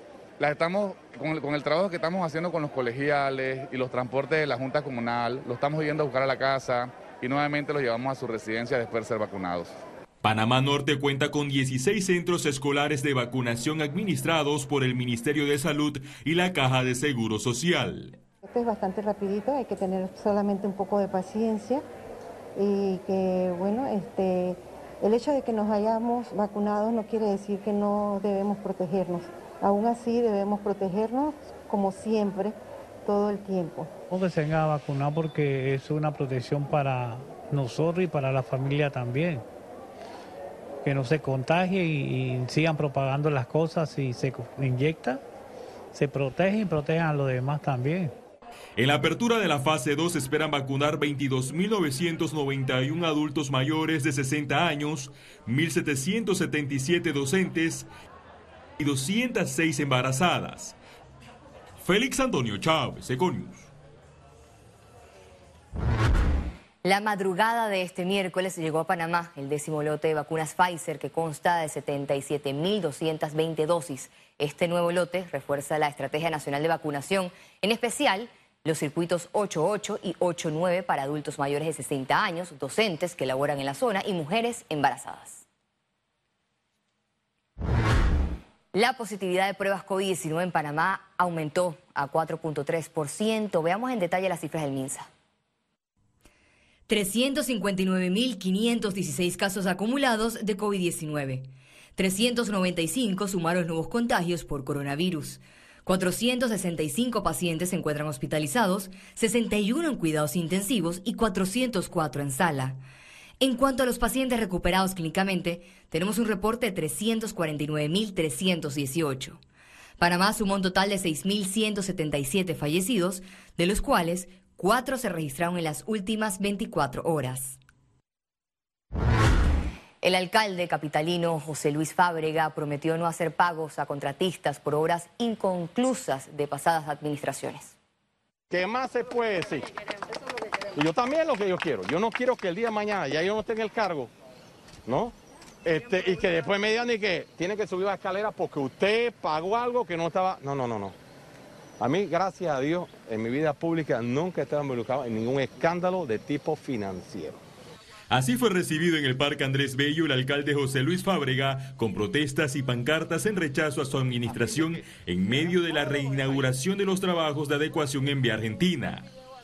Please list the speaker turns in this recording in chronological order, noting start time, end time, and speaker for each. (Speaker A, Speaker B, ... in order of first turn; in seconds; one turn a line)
Speaker A: 0.4-9.7
Speaker B: 10.2-18.2
Speaker C: 18.4-21.9
Speaker C: 22.6-33.9
Speaker D: 34.1-39.5
Speaker D: 40.8-45.2
Speaker D: 45.9-48.1
Speaker B: 48.8-57.9
Speaker B: 58.8-60.8
Speaker B: 61.8-63.7
Speaker E: 66.8-85.4
Speaker E: 88.7-95.1
Speaker E: 96.9-101.5
Speaker E: 102.0-112.8
Speaker E: 113.4-119.4
Speaker E: 120.0-127.6
Speaker E: 130.0-137.8
Speaker F: 138.5-139.7
Speaker F: 140.8-144.1
Speaker F: 144.9-150.9
Speaker F: 151.8-157.4
Speaker B: 158.1-169.1